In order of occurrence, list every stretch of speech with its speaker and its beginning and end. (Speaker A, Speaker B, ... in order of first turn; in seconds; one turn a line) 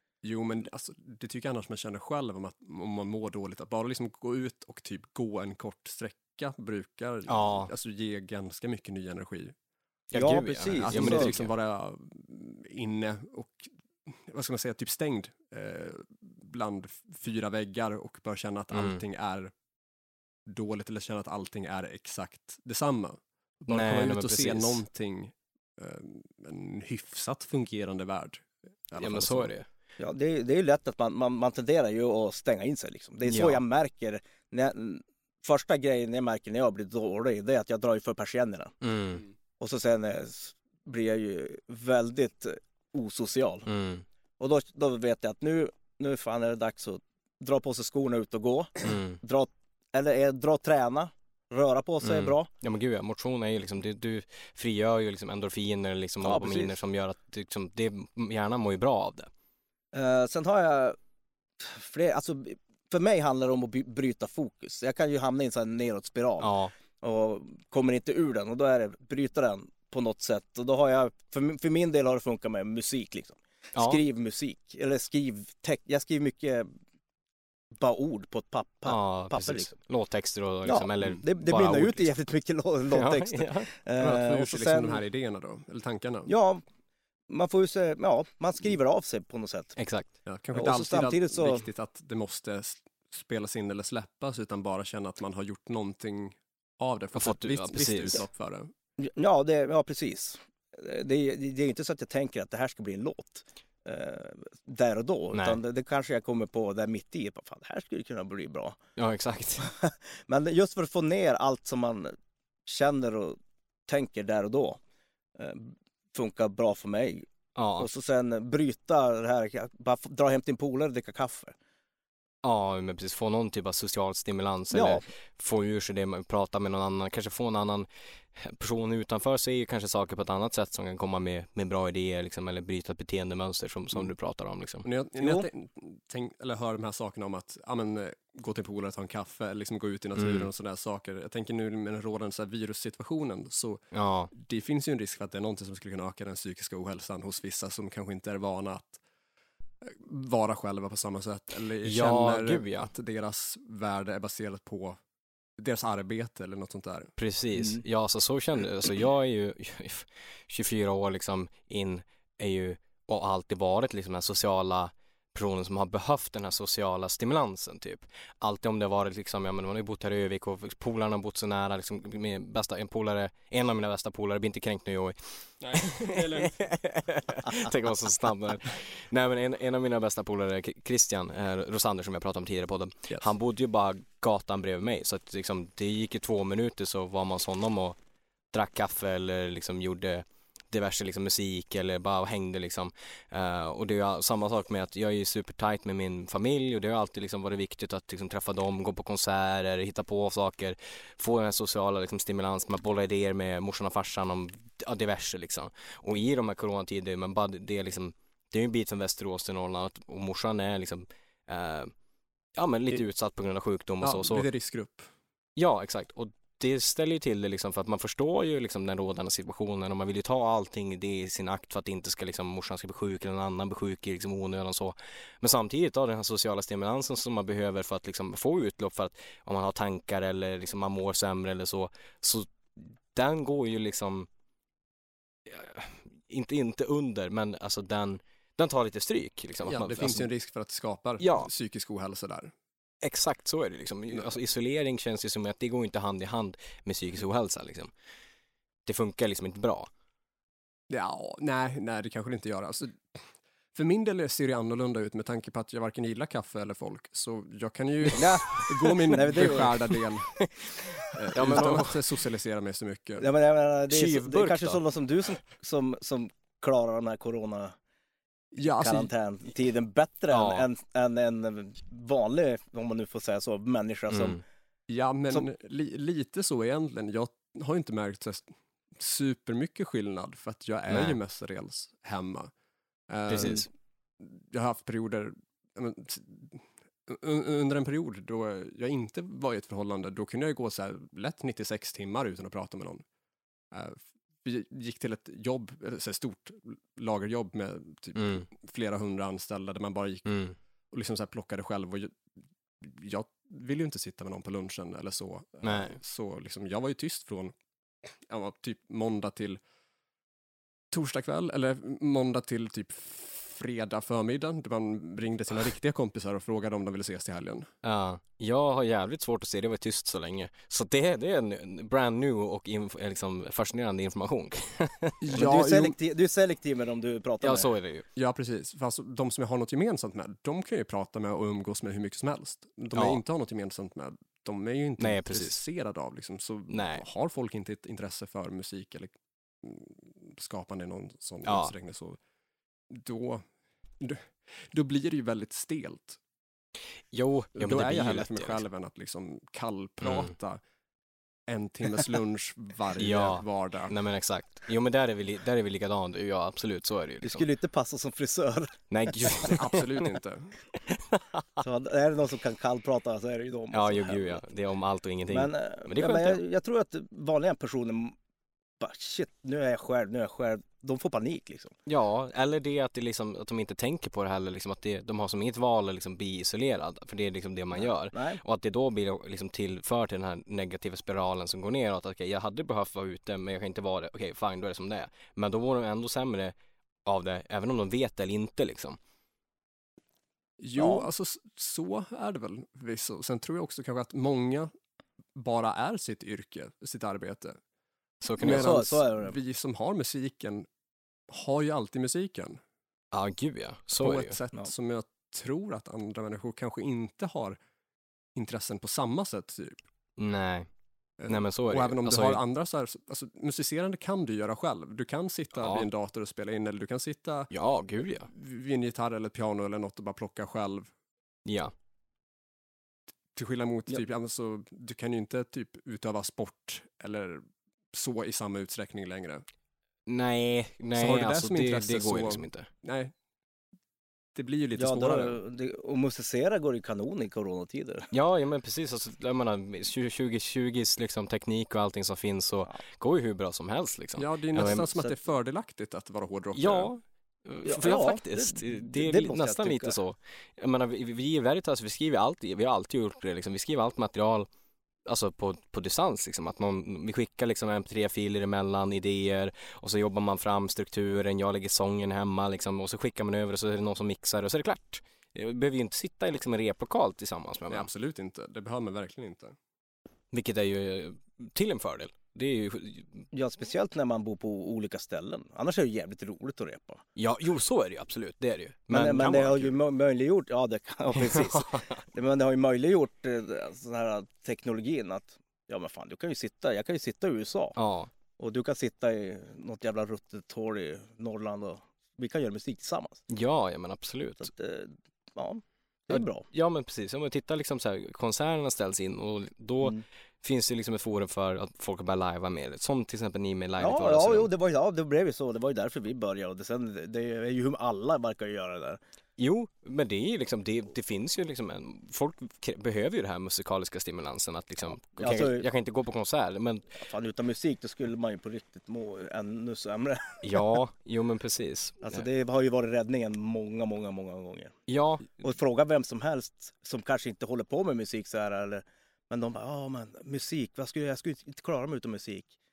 Speaker A: 0.2-9.5
Speaker B: 7.3-7.7
Speaker B: 10.1-11.5
Speaker C: 10.1-11.3
Speaker A: 10.8-19.5
Speaker B: 18.7-19.0
Speaker A: 20.5-29.5
Speaker B: 23.7-24.8
Speaker B: 29.0-29.6
Speaker C: 30.0-38.7
Speaker B: 33.3-33.6
Speaker B: 38.8-39.2
Speaker C: 39.6-43.7
Speaker B: 43.6-44.0
Speaker C: 44.4-52.5
Speaker B: 48.8-49.2
Speaker B: 52.0-59.3
Speaker C: 56.2-56.8
Speaker C: 59.9-61.0
Speaker C: 61.6-76.7
Speaker B: 66.4-66.7
Speaker B: 73.7-74.0
Speaker C: 77.8-79.7
Speaker B: 78.8-82.1
Speaker C: 80.6-85.0
Speaker B: 82.9-83.7
Speaker A: 84.0-86.3
Speaker C: 86.3-86.6
Speaker C: 87.3-89.8
Speaker B: 89.8-90.1
Speaker A: 90.2-98.7
Speaker C: 90.5-91.6
Speaker B: 97.1-98.2
Speaker C: 99.0-108.8
Speaker B: 105.3-105.6
Speaker B: 109.0-109.7
Speaker C: 109.6-112.1
Speaker C: 112.7-114.8
Speaker C: 115.4-121.5
Speaker B: 117.5-117.9
Speaker B: 122.4-134.8
Speaker C: 124.7-125.0
Speaker A: 134.8-143.8
Speaker C: 135.2-135.5
Speaker B: 140.2-140.5
Speaker B: 143.9-144.3
Speaker A: 144.3-149.0
Speaker A: 149.8-155.0
Speaker B: 151.8-152.9
Speaker A: 155.6-157.1
Speaker B: 157.2-175.2
Speaker A: 175.6-176.6
Speaker B: 175.7-187.9
Speaker B: 188.5-211.9
Speaker B: 212.6-214.4
Speaker A: 214.0-215.1
Speaker B: 215.6-234.3
Speaker B: 235.5-240.3
Speaker A: 239.7-242.5
Speaker B: 241.2-241.5
Speaker B: 243.0-247.9
Speaker B: 248.8-249.9
Speaker A: 250.9-260.4
Speaker C: 258.1-259.8
Speaker B: 259.3-259.6
Speaker A: 261.1-263.3
Speaker B: 261.3-262.0
Speaker C: 263.2-267.7
Speaker B: 263.9-264.8
Speaker A: 268.5-269.1
Speaker C: 268.8-274.4
Speaker B: 270.3-270.7
Speaker B: 274.1-274.4
Speaker A: 274.9-282.5
Speaker B: 280.9-281.2
Speaker A: 283.1-283.7
Speaker B: 283.3-283.7
Speaker A: 284.2-293.0
Speaker A: 293.7-300.3
Speaker B: 298.1-298.5
Speaker B: 300.2-300.6
Speaker A: 300.9-302.2
Speaker A: 302.8-307.5
Speaker B: 305.6-306.0
Speaker A: 308.1-309.6
Speaker A: 310.9-317.7
Speaker B: 317.8-325.2
Speaker A: 325.2-325.9
Speaker C: 325.3-327.7
Speaker B: 327.4-328.0
Speaker A: 328.1-342.2
Speaker B: 332.9-333.2
Speaker B: 335.0-335.6
Speaker B: 336.7-337.0
Speaker B: 341.4-341.7
Speaker A: 342.9-343.4
Speaker A: 344.0-346.2
Speaker B: 347.1-348.6
Speaker A: 347.6-350.6
Speaker B: 350.0-350.3
Speaker A: 351.5-353.9
Speaker B: 353.0-357.4
Speaker C: 357.2-359.3
Speaker B: 358.9-360.1
Speaker A: 359.4-360.6
Speaker B: 360.9-361.6
Speaker C: 361.6-364.4
Speaker B: 363.7-366.4
Speaker C: 365.3-368.1
Speaker C: 368.8-371.7
Speaker B: 371.9-386.5
Speaker C: 377.7-378.4
Speaker B: 387.0-389.0
Speaker A: 390.6-394.7
Speaker C: 390.8-391.1
Speaker A: 395.3-397.6
Speaker B: 398.2-398.8
Speaker A: 398.4-400.7
Speaker C: 398.4-399.4
Speaker A: 401.3-402.6
Speaker B: 403.1-404.4
Speaker A: 404.0-407.6
Speaker A: 408.3-409.8
Speaker B: 410.2-410.7
Speaker A: 411.2-417.5
Speaker B: 411.3-412.4
Speaker B: 415.6-415.9
Speaker B: 417.5-418.3
Speaker A: 418.3-420.9
Speaker B: 421.4-421.7
Speaker A: 423.3-429.4
Speaker B: 430.1-432.7
Speaker A: 430.9-433.1
Speaker A: 434.3-435.4
Speaker C: 434.8-438.1
Speaker B: 438.1-445.0
Speaker A: 444.2-446.9
Speaker B: 446.5-454.5
Speaker C: 447.6-449.9
Speaker B: 455.1-467.9
Speaker A: 467.7-469.6
Speaker B: 470.3-473.2
Speaker C: 473.3-477.0
Speaker B: 477.1-479.7
Speaker C: 478.9-487.8
Speaker B: 481.1-482.0
Speaker B: 487.8-488.1
Speaker C: 488.4-493.2
Speaker B: 493.3-494.5
Speaker C: 494.4-496.4
Speaker B: 496.1-504.5
Speaker C: 503.8-509.0
Speaker B: 509.4-517.0
Speaker C: 515.2-515.6
Speaker C: 517.0-520.6
Speaker B: 520.4-522.2
Speaker C: 522.0-524.7
Speaker B: 524.9-525.4
Speaker C: 525.3-532.5